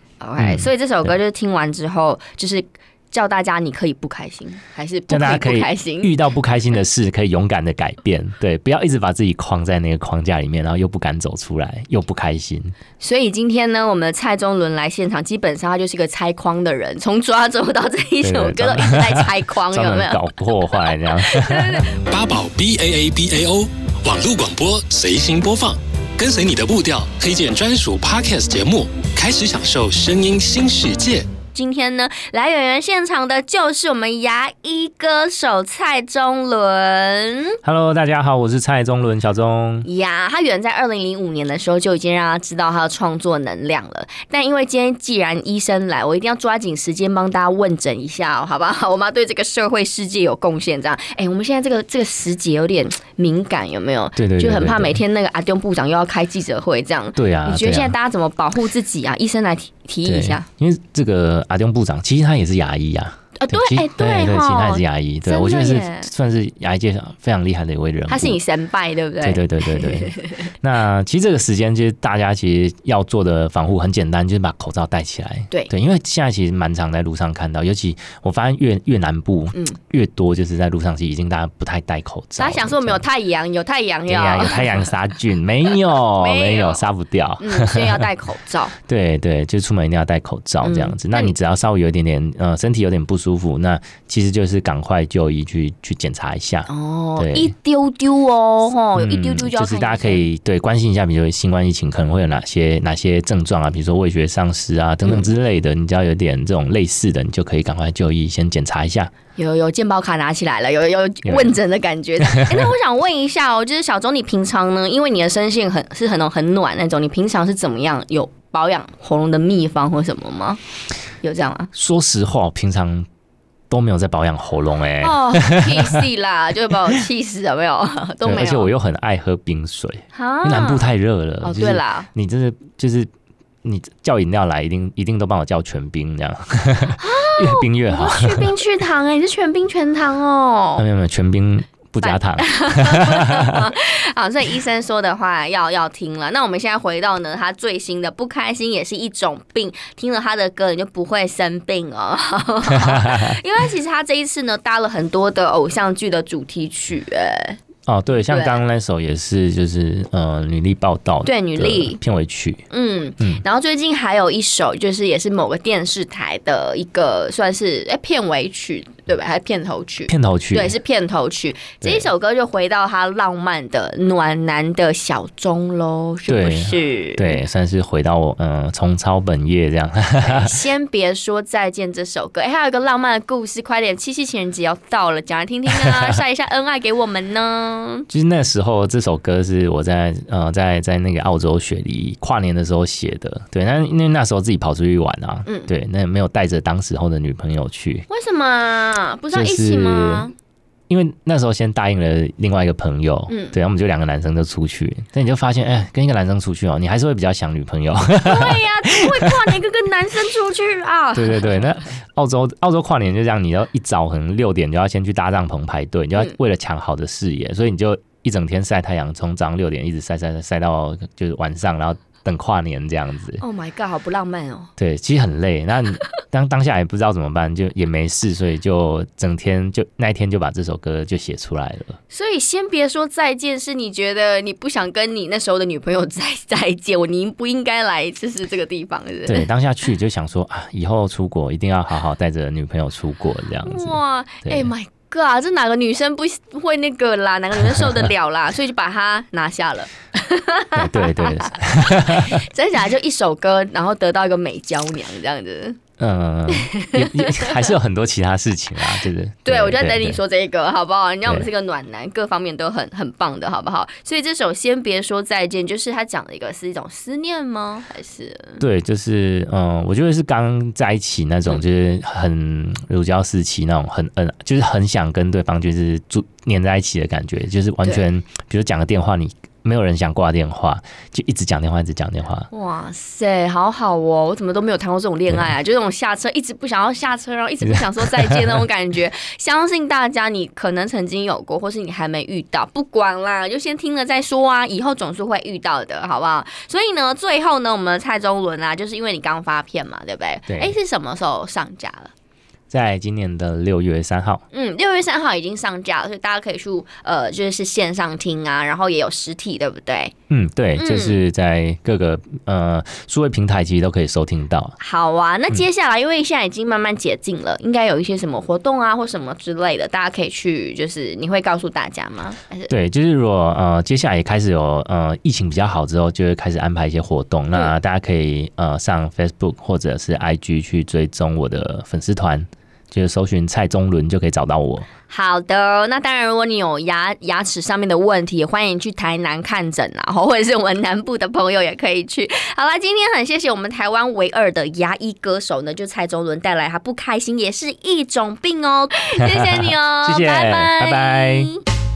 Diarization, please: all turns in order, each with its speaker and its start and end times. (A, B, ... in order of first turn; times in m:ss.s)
0:00.2-0:06.1 A
0:00.4-0:01.1 B
0:05.1-0:12.7 B
0:13.0-0:21.9 A
0:18.2-0:21.9 B
0:22.0-0:31.3 C
0:31.5-0:37.6 A
0:37.6-0:39.9 B
0:39.8-1:00.5 A
0:54.2-0:55.0 B
0:57.2-0:58.0 B
1:00.0-1:08.4 B
1:03.4-1:06.1 A
1:08.1-1:10.4 A
1:09.2-1:23.0 B
1:19.5-1:19.8 A
1:22.4-1:24.9 A
1:24.1-1:28.0 B
1:26.0-1:26.9 A
1:27.4-1:28.7 A
1:28.8-1:37.5 B
1:30.6-1:31.4 A
1:36.7-1:40.2 A
1:38.9-1:49.1 B
1:49.4-2:00.6 A
1:51.2-1:51.6 B
1:52.2-1:52.7 B
2:01.2-2:01.7 A
2:01.7-2:03.1 B
2:03.7-2:06.1 B
2:05.0-2:08.7 A
2:08.2-2:13.1 B
2:10.1-2:10.9 A
2:11.4-2:12.1 A
2:13.6-2:18.6 B
2:17.0-2:20.8 A
2:20.8-2:23.7 B
2:22.0-2:37.6 A
2:32.7-2:33.3 B
2:37.8-2:42.6 B
2:38.3-2:38.6 A
2:41.2-2:42.0 A
2:42.7-2:57.4 A
2:50.1-2:50.8 B
2:51.8-2:52.1 B
2:56.2-3:00.6 B
3:00.2-3:08.1 A
3:08.1-3:18.1 B
3:15.4-3:15.7 A
3:18.1-3:20.3 A
3:19.3-3:20.3 B
3:20.9-3:29.6 B
3:23.3-3:23.6 A
3:28.2-3:31.6 A
3:31.1-3:43.4 B
3:43.4-3:44.7 A
3:44.8-3:52.0 B
3:52.1-3:59.5 A
3:59.2-4:04.7 B
4:03.6-4:15.8 A
4:10.7-4:12.4 B
4:16.0-4:20.2 B
4:16.5-4:17.7 A
4:19.4-4:28.6 A
4:28.6-4:42.5 B
4:42.5-5:02.1 A
4:47.6-4:48.5 B
5:00.5-5:00.8 B
5:02.7-5:04.4 B
5:04.5-5:10.1 A
5:10.3-5:14.8 B
5:10.8-5:11.2 A
5:14.8-5:22.7 A
5:22.7-5:34.9 B
5:35.1-5:51.6 A
5:49.3-5:51.5 B